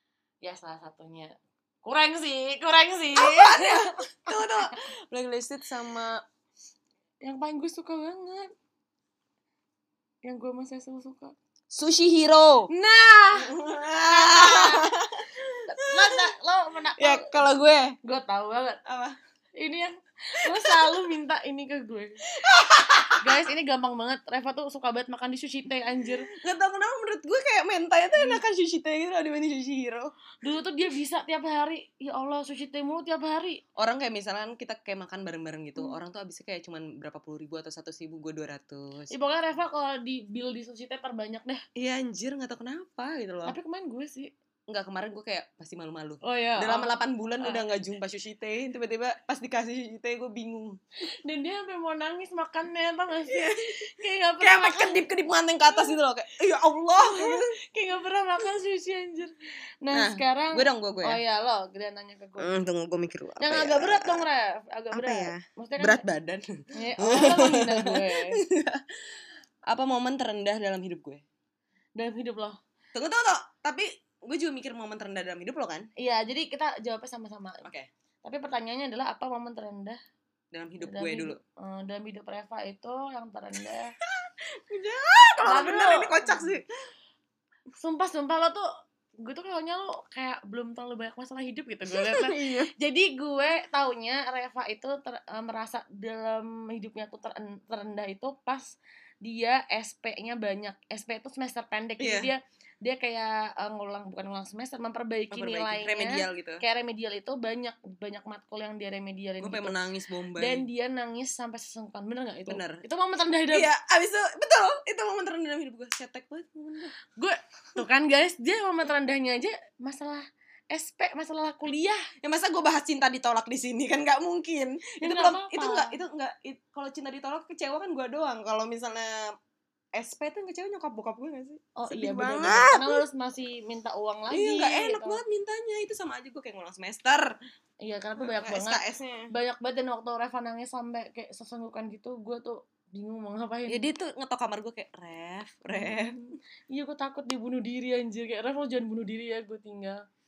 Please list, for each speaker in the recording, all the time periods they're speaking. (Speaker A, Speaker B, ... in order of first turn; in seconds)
Speaker A: 0.4-4.8, 7.2-8.5, 10.2-11.3, 12.7-13.5, 14.1-14.9, 15.7-17.4, 18.0-18.8, 19.6-22.2, 23.2-26.3, 30.4-33.6, 39.1-41.6, 43.4-44.3, 46.2-47.6, 51.0-55.0, 57.0-62.6, 63.4-66.0, 66.7-68.4, 72.0-72.6, 76.0-77.7, 78.2-80.0, 80.8-83.9, 85.4-86.5, 87.8-88.6, 89.2-109.8, 110.3-113.7, 117.2-122.0, 125.0-125.9, 131.8-135.2, 137.8-143.9, 145.7-146.2, 146.7-150.0
Speaker B: 3.1-6.2, 11.7-12.7, 13.4-16.3, 17.0-18.0, 18.8-19.1, 20.4-21.1, 22.3-23.4, 26.0-30.1, 33.8-39.1, 41.8-43.5, 44.7-50.8, 53.2-53.8, 54.4-57.5, 59.9-61.2, 62.4-64.2, 64.9-69.1, 69.7-71.2, 72.9-75.9, 77.6-77.9, 80.5-81.4, 84.1-86.7, 91.9-92.7, 102.0-102.3, 105.3-106.6, 109.4-110.7, 112.5-112.8, 113.5-116.9, 122.2-129.3, 129.9-133.0, 134.3-137.3, 138.2-139.3, 143.7-146.2